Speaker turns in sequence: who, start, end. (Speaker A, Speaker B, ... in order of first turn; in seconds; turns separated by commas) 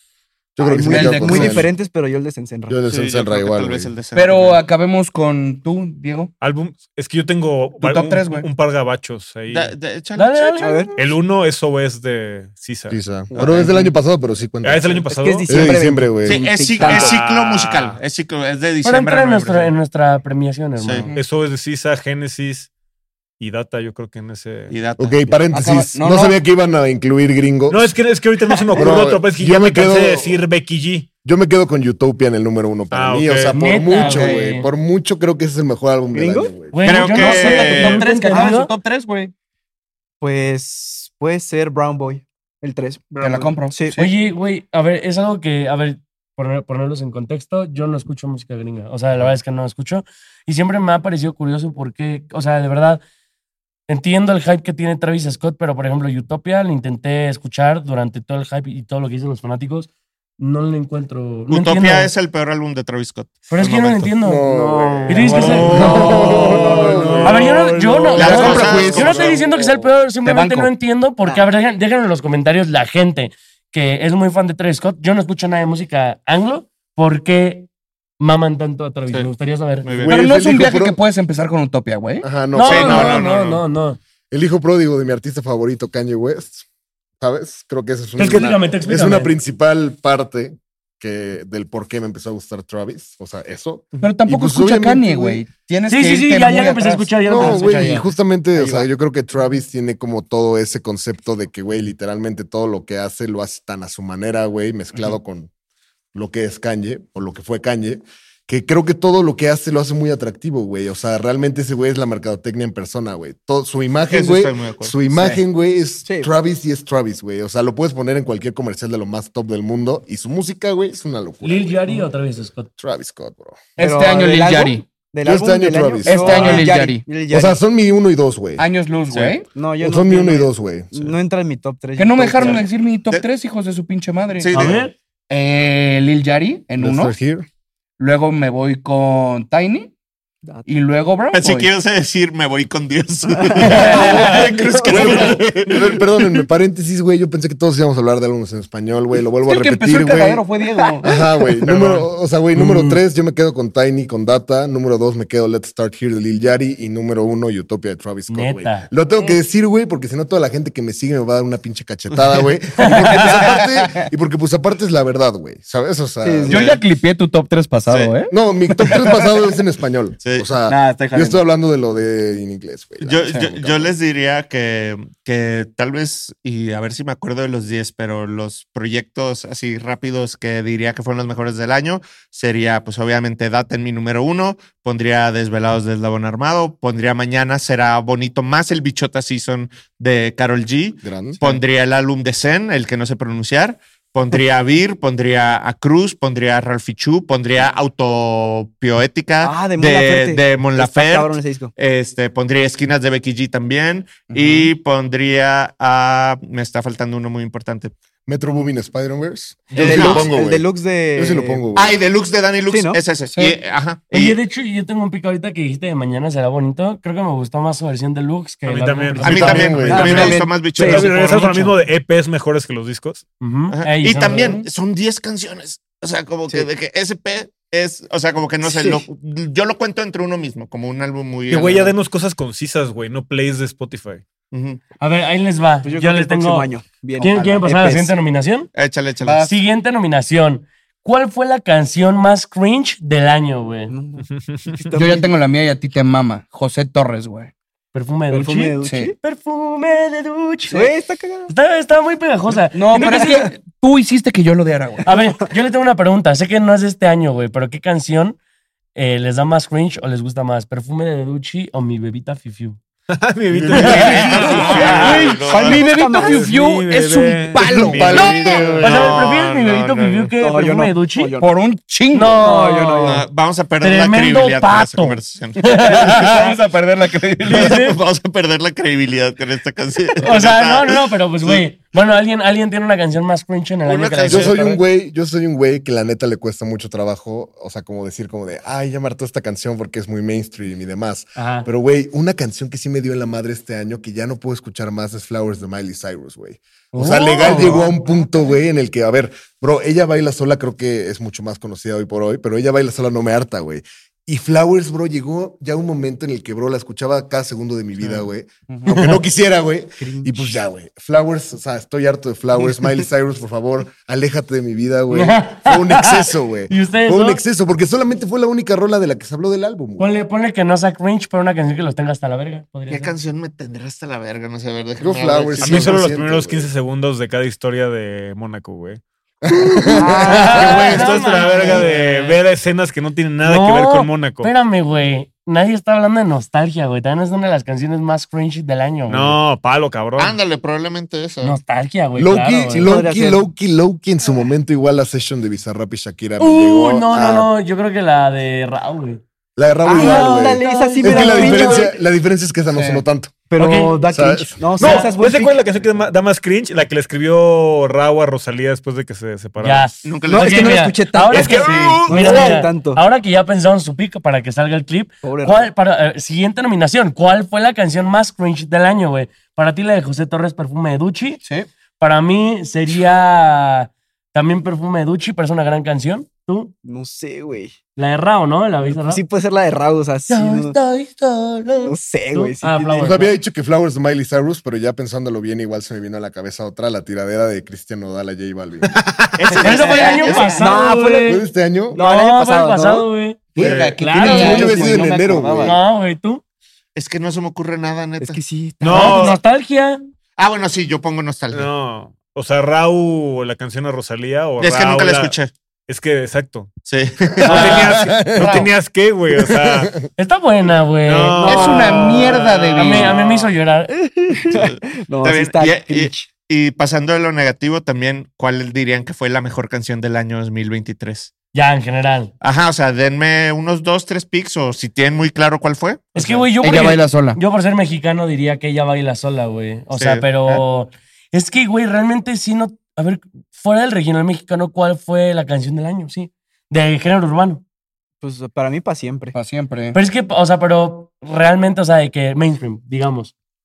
Speaker A: 0.6-1.7, Speaker B: 0.6-2.8, Speaker C: 0.8-1.7, Speaker A: 2.7-3.9, Speaker D: 2.9-4.6, Speaker C: 4.1-6.3, Speaker E: 6.4-9.7, Speaker C: 7.8-8.5, Speaker D: 9.5-10.8, Speaker F: 10.2-10.9, Speaker B: 10.6-11.0, Speaker E: 10.9-13.0, Speaker A: 12.9-16.4, Speaker B: 13.3-13.7, Speaker C: 13.6-13.8, Speaker E: 14.6-15.8, Speaker B: 15.1-17.2, Speaker D: 16.2-19.7, Speaker E: 16.8-18.0, Speaker F: 18.8-21.1, Speaker D: 20.8-21.1, Speaker E: 21.1-22.7, Speaker E: 23.4-24.8, Speaker D: 24.7-25.5, Speaker A: 25.0-27.9, Speaker C: 25.5-26.4, Speaker E: 27.7-31.1, Speaker B: 28.6-29.0, Speaker A: 28.7-30.4, Speaker A: 31.2-36.8, Speaker E: 32.9-33.6, Speaker F: 33.5-34.7, Speaker C: 33.9-34.5, Speaker B: 36.1-36.5, Speaker F: 36.7-38.7, Speaker D: 36.8-38.1, Speaker C: 37.0-39.3, Speaker B: 40.2-44.0, Speaker C: 43.2-44.1, Speaker F: 43.9-53.0, Speaker F: 53.9-62.1, Speaker D: 61.5-64.1, Speaker F: 63.5-80.0, Speaker A: 64.2-67.4, Speaker E: 65.1-68.6, Speaker D: 68.1-69.3, Speaker C: 68.2-69.3, Speaker A: 68.3-69.9, Speaker C: 70.2-70.7, Speaker D: 79.8-80.2, Speaker A: 80.0-81.0, Speaker C: 80.0-82.3, Speaker A: 82.2-83.2, Speaker F: 82.5-84.0, Speaker D: 82.6-83.6, Speaker A: 84.3-86.7, Speaker A: 87.2-95.4, Speaker F: 88.2-89.3, Speaker C: 94.0-97.9, Speaker F: 95.9-98.1, Speaker A: 97.2-105.5, Speaker B: 98.5-98.9, Speaker A: 106.1-121.9, Speaker D: 114.0-115.0, Speaker C: 115.1-115.4, Speaker B: 116.0-116.3, Speaker F: 121.4-122.7, Speaker A: 122.8-123.6, Speaker C: 123.8-124.8, Speaker B: 123.8-127.6, Speaker A: 125.2-126.7, Speaker C: 126.0-127.1, Speaker A: 127.3-128.7, Speaker C: 128.6-129.5, Speaker D: 129.1-129.4, Speaker B: 129.5-132.6, Speaker A: 129.8-131.1, Speaker C: 131.9-134.8, Speaker D: 132.4-133.2, Speaker D: 134.4-134.8, Speaker F: 134.5-134.9, Speaker C: 135.3-137.1, Speaker A: 136.8-137.5, Speaker C: 138.0-139.9, Speaker C: 140.7-141.7, Speaker D: 141.3-145.9, Speaker B: 143.3-145.4, Speaker C: 143.7-144.4, Speaker A: 143.8-150.4, Speaker C: 149.4-151.2, Speaker A: 151.0-166.6, Speaker E: 151.7-152.0, Speaker F: 152.6-152.9, Speaker F: 158.3-158.9, Speaker F: 162.8-163.2, Speaker C: 162.9-164.1, Speaker B: 166.2-166.7, Speaker C: 166.5-169.2, Speaker D: 166.5-166.8, Speaker D: 167.9-168.1, Speaker A: 168.3-173.9, Speaker D: 170.2-170.6, Speaker C: 170.6-171.4, Speaker D: 173.0-207.9, Speaker A: 191.0-191.4, Speaker B: 199.4-201.7, Speaker C: 204.3-204.7, Speaker A: 208.2-212.0, Speaker D: 209.8-210.3, Speaker B: 209.8-211.6, Speaker D: 211.7-214.4, Speaker B: 212.7-213.0, Speaker C: 213.2-213.6, Speaker F: 214.1-220.1, Speaker E: 218.7-223.2, Speaker D: 219.2-221.6, Speaker A: 219.2-220.3, Speaker B: 219.9-221.1, Speaker C: 220.0-220.6, Speaker F: 223.4-224.6, Speaker D: 223.7-231.9, Speaker C: 224.2-224.7, Speaker B: 228.6-229.0, Speaker E: 231.5-234.2, Speaker D: 234.5-234.8, Speaker F: 235.0-238.7, Speaker B: 235.8-238.2, Speaker C: 237.2-237.7, Speaker D: 238.7-239.4, Speaker C: 239.2-239.5, Speaker F: 239.4-243.9, Speaker B: 243.9-245.3, Speaker E: 244.3-244.6, Speaker C: 244.9-247.5, Speaker F: 247.9-250.9, Speaker B: 248.3-249.1, Speaker C: 248.8-249.1, Speaker B: 250.7-251.5, Speaker F: 251.5-253.5, Speaker C: 252.7-255.0, Speaker F: 255.0-258.4, Speaker F: 258.9-262.8, Speaker E: 263.1-265.5, Speaker A: 263.5-264.5, Speaker F: 263.8-265.0, Speaker C: 264.0-268.2, Speaker D: 264.6-265.8, Speaker B: 265.0-266.5, Speaker E: 266.1-268.5, Speaker A: 267.6-269.1, Speaker D: 268.0-270.3, Speaker F: 268.1-271.3, Speaker B: 270.4-271.5, Speaker C: 271.4-272.4, Speaker F: 272.1-273.2, Speaker B: 272.4-273.2, Speaker D: 273.0-276.3, Speaker F: 273.8-276.5, Speaker C: 275.6-277.8, Speaker F: 277.4-278.0, Speaker D: 277.5-281.6, Speaker F: 280.2-284.8, Speaker D: 283.8-284.6, Speaker A: 284.3-320.1, Speaker F: 291.4-291.7, Speaker F: 296.9-297.9, Speaker C: 308.7-308.9, Speaker F: 308.9-309.2, Speaker B: 310.0-310.6, Speaker F: 315.1-317.4, Speaker F: 320.0-323.1, Speaker D: 322.9-326.1, Speaker A: 325.0-326.7, Speaker E: 325.6-329.0, Speaker A: 329.4-331.0, Speaker F: 329.8-331.9, Speaker B: 329.9-330.9, Speaker D: 330.3-332.4, Speaker E: 330.5-334.5, Speaker F: 333.4-339.4, Speaker E: 339.1-340.4, Speaker D: 340.2-341.6, Speaker F: 341.4-343.1, Speaker A: 342.2-347.5, Speaker B: 342.7-343.4, Speaker F: 346.4-349.2, Speaker A: 349.6-353.3, Speaker B: 349.8-351.9, Speaker F: 349.9-351.9, Speaker C: 352.7-353.0, Speaker B: 353.5-355.6, Speaker F: 353.6-354.0, Speaker A: 354.1-354.7, Speaker F: 354.8-355.1, Speaker E: 354.8-359.9, Speaker F: 359.6-371.4, Speaker D: 360.0-362.6, Speaker B: 360.3-363.0, Speaker C: 361.5-362.1, Speaker B: 365.2-365.7, Speaker C: 371.4-371.7, Speaker F: 372.0-376.7, Speaker B: 376.8-377.7, Speaker F: 377.9-379.2, Speaker B: 378.9-380.8, Speaker F: 380.3-383.3, Speaker B: 381.8-383.3, Speaker A: 383.0-389.0, Speaker D: 389.3-390.6, Speaker B: 389.5-391.4, Speaker F: 389.6-395.0, Speaker C: 389.6-390.5, Speaker A: 391.2-392.0, Speaker B: 391.9-393.1, Speaker C: 393.5-395.8, Speaker E: 393.6-394.0, Speaker A: 394.2-395.8, Speaker F: 395.6-396.4, Speaker D: 396.9-398.4, Speaker B: 398.2-399.4, Speaker E: 398.8-399.4, Speaker F: 398.9-400.0, Speaker D: 398.9-399.3, Speaker D: 400.4-401.7, Speaker E: 401.5-405.3, Speaker D: 404.6-405.5, Speaker E: 405.9-406.7, Speaker D: 406.9-408.0, Speaker E: 407.4-410.0, Speaker A: 407.4-408.7, Speaker C: 408.4-408.7, Speaker A: 409.3-409.9, Speaker F: 410.2-412.1, Speaker E: 411.1-413.4, Speaker C: 411.4-413.2, Speaker F: 412.7-414.4, Speaker B: 414.3-416.3, Speaker D: 414.5-421.3, Speaker F: 421.5-422.3, Speaker D: 422.4-426.6, Speaker F: 426.1-437.6, Speaker C: 426.6-427.4, Speaker D: 429.9-430.6, Speaker B: 438.2-439.4, Speaker C: 439.3-440.0, Speaker F: 439.9-443.3